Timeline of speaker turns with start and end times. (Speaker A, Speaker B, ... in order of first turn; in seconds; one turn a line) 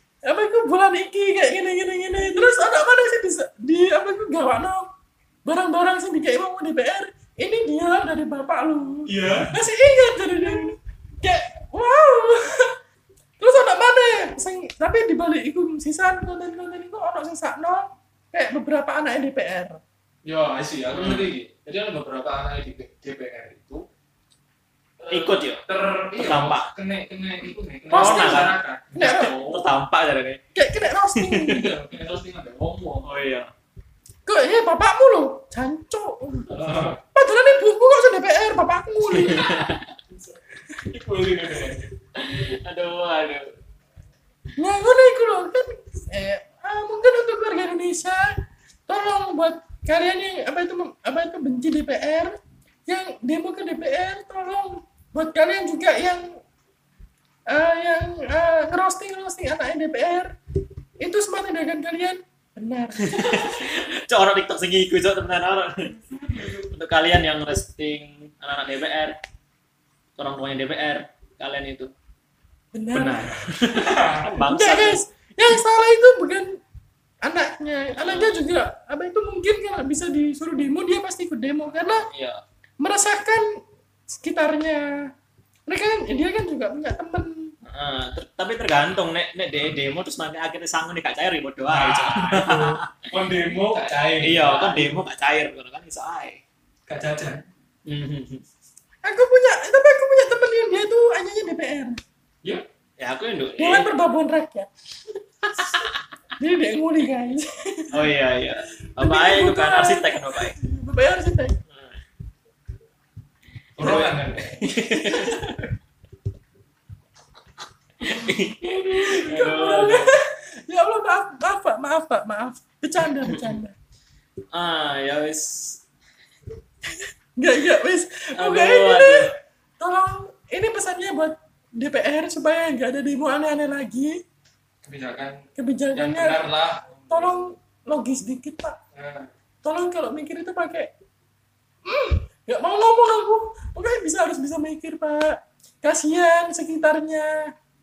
Speaker A: 0.2-4.9
Speaker A: 5.5-12.8
Speaker B: 9.1-9.5
Speaker C: 9.2-9.5
Speaker A: 13.4-19.8
Speaker C: 20.2-23.9
Speaker B: 20.9-21.3
Speaker C: 25.0-29.6
Speaker B: 25.1-25.6
Speaker B: 26.2-26.7
Speaker A: 27.9-29.4
Speaker B: 27.9-30.4
Speaker A: 30.6-31.7
Speaker B: 31.1-31.7
Speaker C: 31.6-33.1
Speaker B: 33.0-33.5
Speaker A: 34.3-36.5
Speaker B: 36.5-37.0
Speaker C: 36.5-37.0
Speaker A: 37.1-39.7
Speaker B: 39.1-40.0
Speaker C: 40.8-41.9
Speaker B: 42.1-43.5
Speaker A: 44.6-48.3
Speaker A: 48.9-56.4
Speaker A: 57.5-60.3
Speaker A: 61.0-63.6
Speaker B: 63.0-69.2
Speaker C: 66.1-66.7
Speaker B: 70.2-71.9
Speaker A: 72.7-73.2
Speaker B: 72.9-75.1
Speaker C: 73.7-74.4
Speaker A: 74.5-76.6
Speaker A: 77.2-82.1
Speaker B: 78.0-78.4
Speaker B: 81.7-82.4
Speaker A: 82.8-83.5
Speaker A: 84.1-85.1
Speaker A: 85.7-87.5
Speaker B: 87.6-93.0
Speaker C: 91.7-95.0
Speaker B: 93.7-96.4
Speaker C: 96.9-97.4
Speaker B: 97.9-98.5
Speaker A: 99.0-102.0
Speaker B: 103.0-103.9
Speaker A: 103.6-104.7
Speaker A: 105.5-108.1
Speaker B: 105.6-105.9
Speaker B: 107.9-110.5
Speaker A: 108.8-111.6
Speaker C: 113.8-114.7
Speaker B: 113.8-115.5
Speaker A: 115.0-115.6
Speaker B: 118.0-120.1
Speaker A: 118.6-123.7
Speaker B: 123.0-123.6
Speaker B: 124.5-125.8
Speaker A: 127.4-129.3
Speaker B: 128.3-129.3
Speaker A: 129.8-134.2
Speaker C: 134.8-137.3
Speaker A: 135.6-138.8
Speaker C: 138.9-139.3
Speaker A: 139.6-140.9
Speaker A: 141.8-147.5